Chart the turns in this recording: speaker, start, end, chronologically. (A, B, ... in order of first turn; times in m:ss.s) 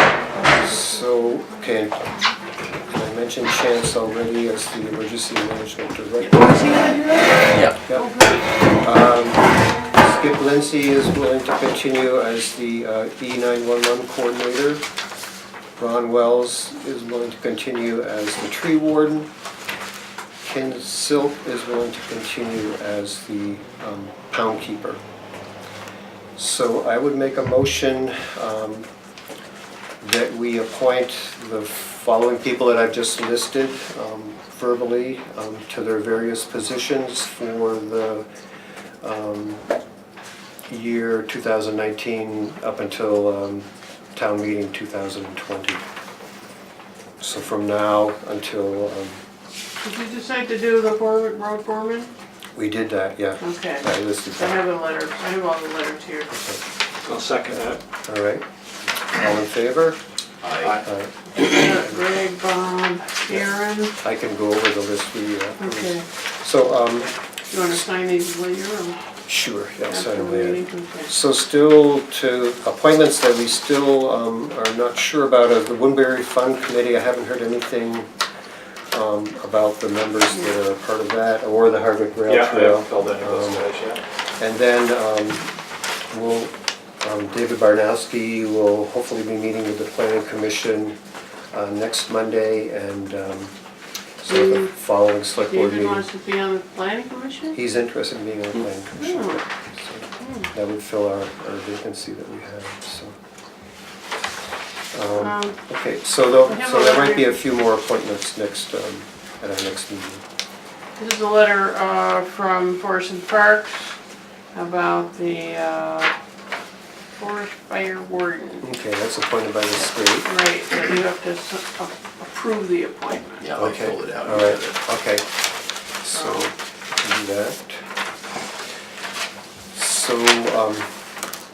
0:00.4-0:00.9 A
0:00.4-0:02.0 B
0:02.9-0:06.6 B
0:06.3-0:08.7 A
0:07.5-0:07.8 C
0:08.8-0:14.8 B
0:15.8-0:19.3 B
0:20.4-0:25.0 B
0:26.4-0:28.9 B
0:30.0-0:38.3 B
0:39.0-0:39.6 B
0:40.7-0:45.8 B
0:47.2-0:49.2 B
0:49.8-0:52.1 A
0:52.6-0:54.6 B
0:53.4-0:56.3 A
0:56.3-0:56.6 B
0:57.0-0:57.8 D
0:58.0-0:58.4 B
0:59.1-1:00.0 B
1:00.4-1:00.8 C
1:00.6-1:00.9 D
1:00.8-1:01.1 B
1:01.3-1:04.0 A
1:04.0-1:07.1 B
1:05.6-1:06.0 A
1:07.5-1:09.0 A
1:09.3-1:18.1 B
1:09.9-1:11.1 A
1:18.9-1:23.6 B
1:22.2-1:24.0 D
1:24.4-1:25.5 B
1:26.1-1:31.0 B
1:31.5-1:33.5 B
1:34.2-1:36.0 B
1:34.3-1:34.7 A
1:35.4-1:37.6 A
1:37.5-1:43.2 B
1:39.0-1:39.4 A
1:40.2-1:40.5 A
1:44.9-1:50.2 B
1:45.2-1:45.5 A
1:46.5-1:47.3 A
1:51.0-1:54.0 A
1:54.5-1:56.1 A
1:57.2-1:58.6 A
1:58.6-2:00.3 B
2:00.2-2:03.4 A
2:03.4-2:04.8 C
2:03.6-2:05.3 B
2:06.0-2:07.8 B
2:06.1-2:06.4 A
2:09.7-2:10.9 B